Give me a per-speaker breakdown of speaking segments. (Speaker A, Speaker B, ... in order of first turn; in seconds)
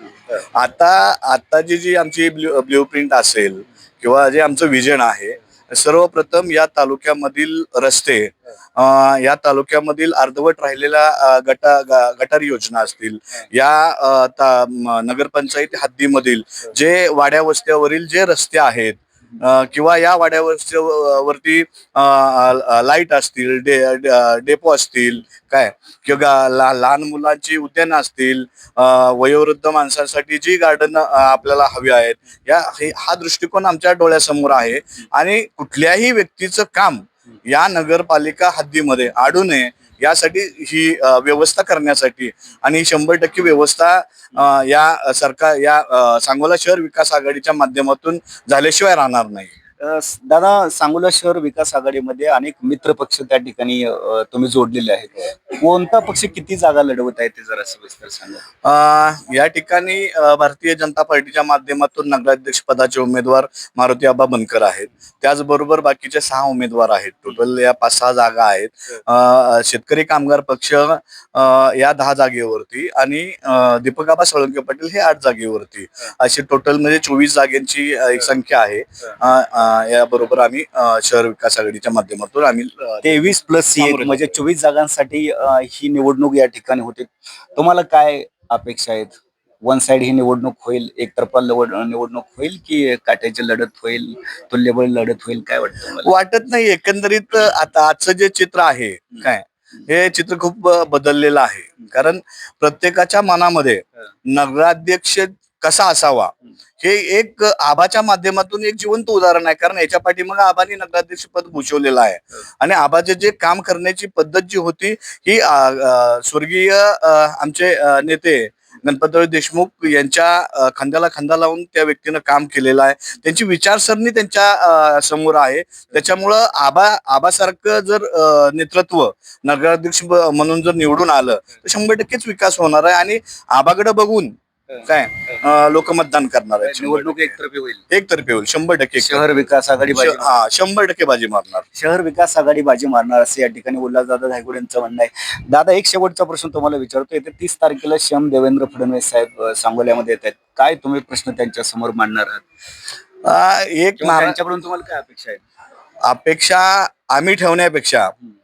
Speaker A: 0.5-49.5, 58.6-83.2, 83.8-84.3, 96.0-137.3, 137.9-139.2, 139.9-141.6, 153.2-154.3, 156.0-158.1
Speaker B: 49.8-58.4, 83.0-96.1, 136.6-137.8, 139.0-140.4, 141.7-152.4, 154.0-155.4